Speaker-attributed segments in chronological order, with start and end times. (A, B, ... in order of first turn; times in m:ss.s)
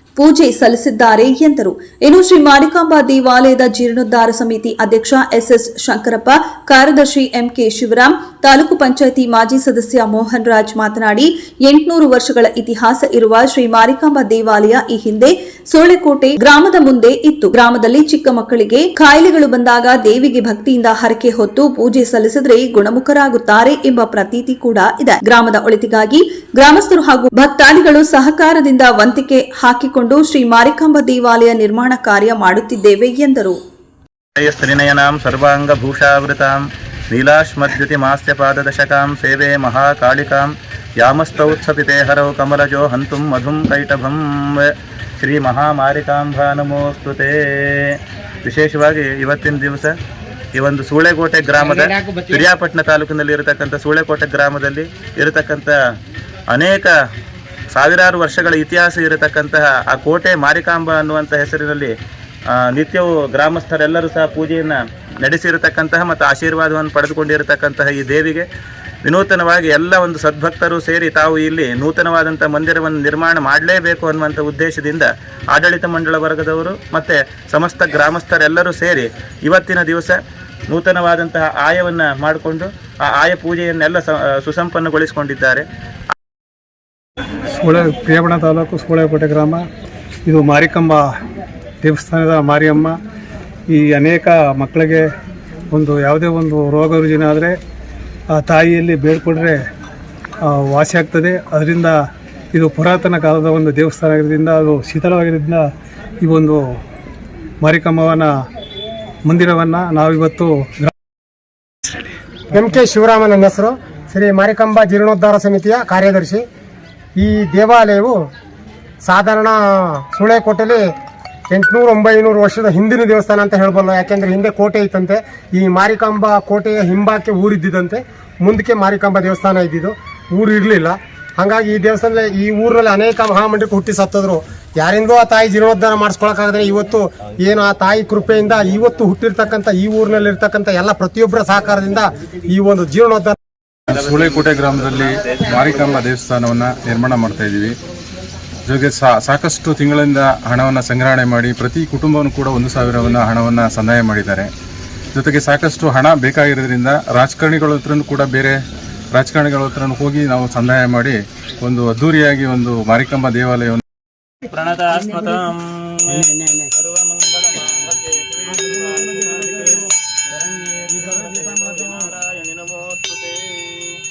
0:00.2-0:33.6 A
0:34.4-0:36.6 B
0:37.1-0:50.0 B
0:50.6-0:55.7 B
0:56.5-0:56.9 B
0:57.7-1:01.9 B
1:02.7-1:08.4 B
1:09.0-1:20.2 B
1:20.7-1:25.6 B
1:27.5-1:29.6 C
1:30.2-1:31.1 C
1:31.8-1:33.0 C
1:33.7-1:35.1 C
1:35.7-1:37.6 C
1:38.3-1:39.6 C
1:40.4-1:42.0 C
1:42.5-1:45.7 C
1:46.2-1:46.8 C
1:47.6-1:48.3 C
1:49.2-1:50.9 C
1:52.5-1:56.4 D
1:57.2-1:58.2 D
1:59.0-2:00.8 D
2:01.5-2:23.4 D
2:23.9-2:27.7 E
2:23.9-2:26.0 B
2:28.6-2:34.5 E
2:35.1-2:38.6 E
2:39.1-2:43.8 E
2:44.5-2:53.9 B